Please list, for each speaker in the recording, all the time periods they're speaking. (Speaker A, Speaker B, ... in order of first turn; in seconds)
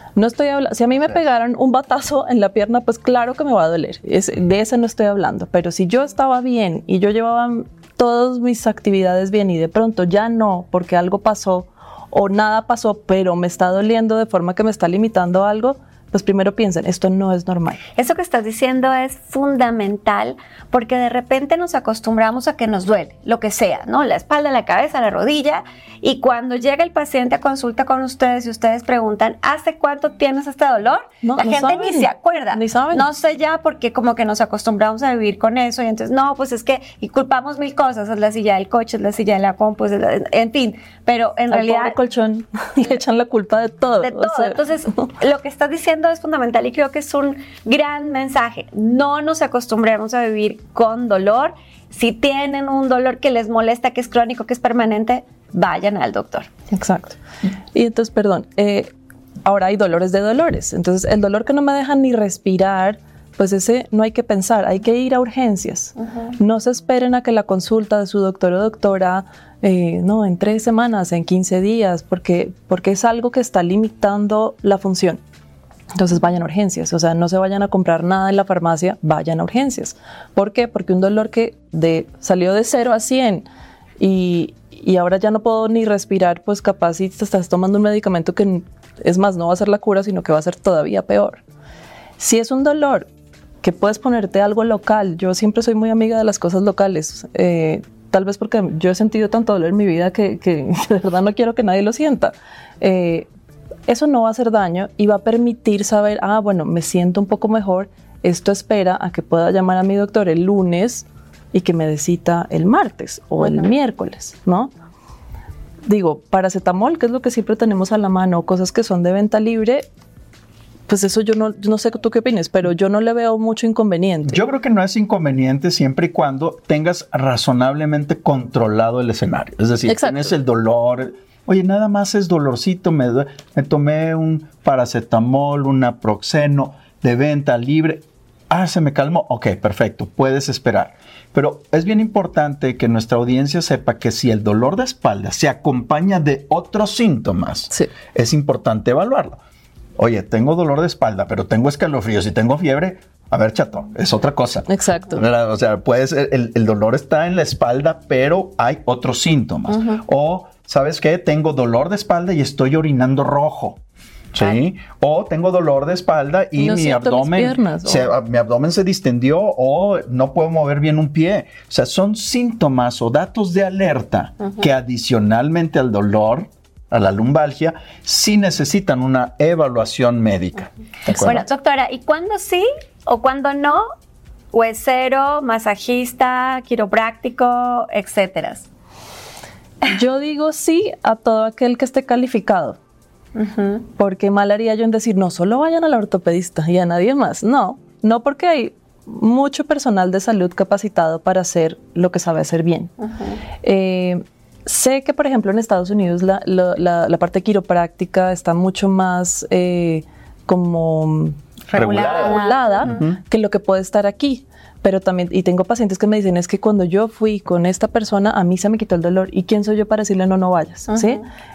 Speaker A: 0.2-17.8, 31.2-33.1, 41.5-44.6, 56.7-57.2, 57.7-58.9, 59.5-75.2, 76.0-83.5, 84.0-91.4, 92.2-93.1, 93.6-103.3, 103.9-114.7, 115.9-119.9, 120.9-124.4, 129.9-130.3, 154.7-155.2, 166.6-168.1, 189.8-192.8, 194.0-202.9, 203.6-211.4, 211.9-221.2
Speaker B: 18.0-42.0, 44.0-56.5, 159.7-160.0, 181.1-183.8, 184.5-188.7, 193.3-193.9, 203.0-203.4, 211.7-212.8, 220.9-221.2
Speaker C: 124.3-149.4, 150.0-163.8, 164.3-181.5, 211.8-212.3, 212.8-213.2